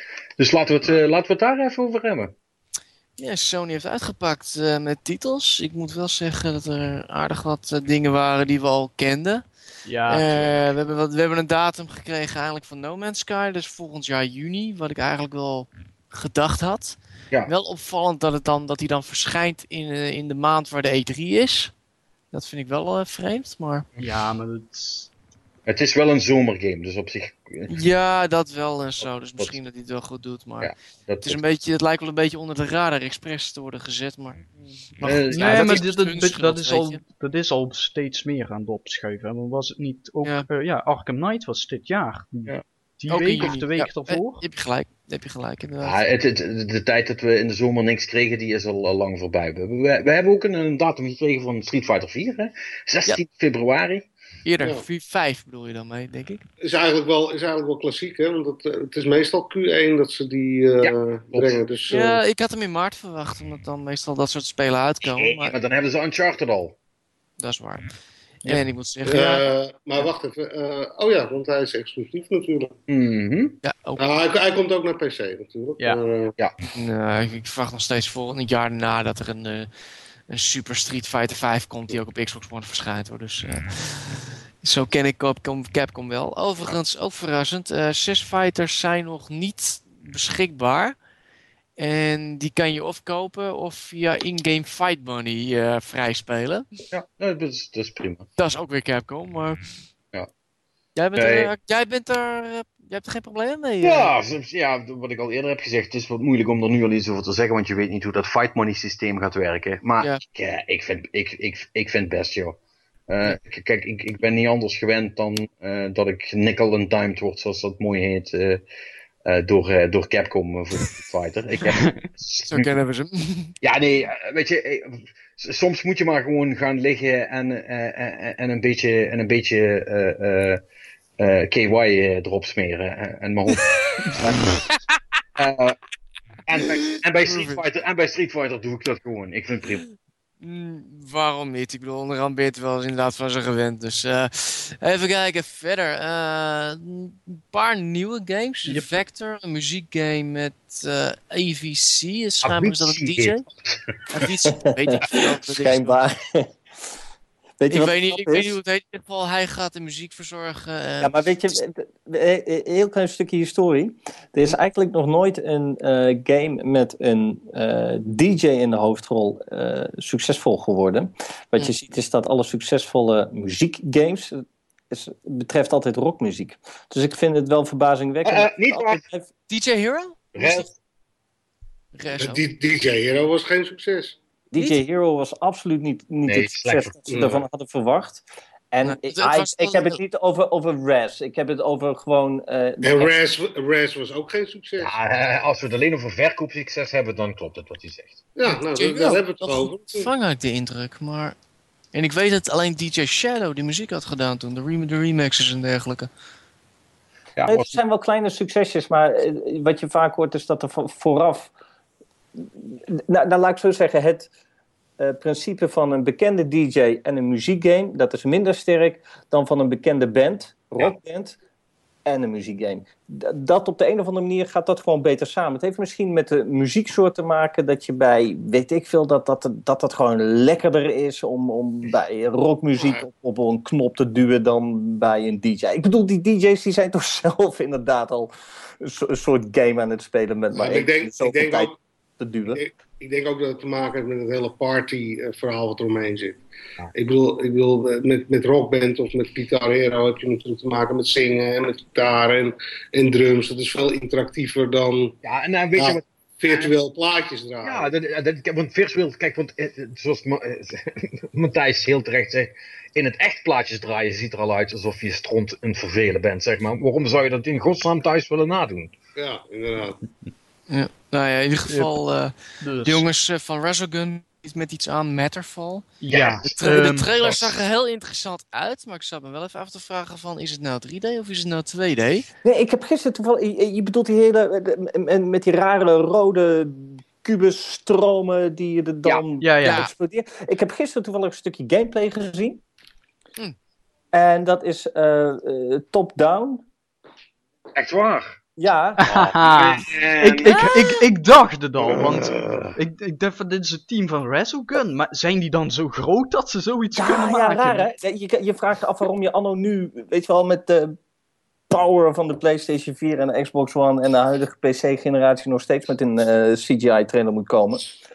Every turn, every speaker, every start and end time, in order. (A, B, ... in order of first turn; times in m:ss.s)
0:00.4-0:02.3 A
0:03.2-0:09.4 B
0:09.8-0:10.3 C
0:10.1-0:21.7 B
0:22.3-0:23.9 B
0:24.0-0:25.1 C
0:25.6-0:27.7 A
0:27.7-0:34.4 B
0:30.6-0:31.4 A
0:35.0-0:37.0 B
0:35.0-0:35.8 A
0:35.1-0:44.4 C
0:40.2-0:40.5 B
0:43.1-0:46.0 B
0:45.8-0:54.0 A
0:54.4-0:56.4 B
0:54.6-0:54.8 D
0:56.6-1:02.2 D
1:00.8-1:01.6 A
1:01.9-1:05.5 B
1:05.1-1:06.7 A
1:07.4-1:07.9 B
1:08.4-1:09.5 B
1:09.0-1:12.7 D
1:12.9-1:13.6 A
1:13.6-1:14.0 B
1:14.0-1:16.4 D
1:16.7-1:19.7 B
1:20.3-1:30.9 B
1:31.8-1:36.7 B
1:36.9-1:38.3 A
1:38.4-1:39.7 B
1:41.0-1:44.1 B
1:41.1-1:41.5 A
1:43.8-1:52.6 A
1:53.1-1:58.6 A
1:59.2-2:02.7 A
2:01.7-2:02.1 C
2:02.5-2:03.5 B
2:03.6-2:10.6 A
2:11.2-2:14.6 A
2:14.1-2:14.4 B
2:15.4-2:15.8 A
2:16.4-2:19.8 A
2:16.6-2:17.6 B
2:20.4-2:33.4 B
2:28.6-2:28.9 C
2:32.4-2:34.2 A
2:34.1-2:36.0 B
2:34.8-2:36.6 E
2:37.6-2:38.6 E
2:37.7-2:41.5 B
2:41.0-2:59.3 E
2:58.2-2:59.0 A
2:59.5-3:00.6 B
3:00.3-3:00.7 A
3:01.9-3:02.4 B
3:02.2-3:04.2 D
3:04.5-3:13.1 E
3:06.2-3:07.4 A
3:07.1-3:07.4 D
3:08.8-3:10.0 B
3:12.8-3:14.9 D
3:14.8-3:18.2 A
3:18.3-3:20.1 D
3:18.4-3:21.4 B
3:21.9-3:26.1 B
3:27.4-3:27.8 A
3:27.5-3:31.5 E
3:32.4-3:34.3 E
3:35.0-3:41.4 E
3:42.0-4:02.6 E
3:52.8-3:53.0 D
4:00.6-4:01.7 D
4:02.5-4:06.4 D
4:06.9-4:15.2 D
4:15.2-4:16.8 A
4:15.8-4:17.9 D
4:17.6-4:28.9 A
4:29.2-4:30.0 D
4:30.7-4:35.9 B
4:32.6-4:33.1 C
4:36.0-4:37.1 C
4:36.1-4:36.5 A
4:36.4-4:42.3 B
4:37.2-4:37.5 A
4:42.4-4:52.6 E
4:49.4-4:49.8 C
4:49.6-4:49.9 B
4:54.1-4:56.6 E
4:57.7-4:58.4 A
4:58.6-4:59.2 E
4:59.0-5:07.9 C
4:59.1-5:00.6 A
5:00.4-5:01.0 B
5:01.9-5:02.7 A
5:06.9-5:11.0 E
5:11.7-5:17.8 E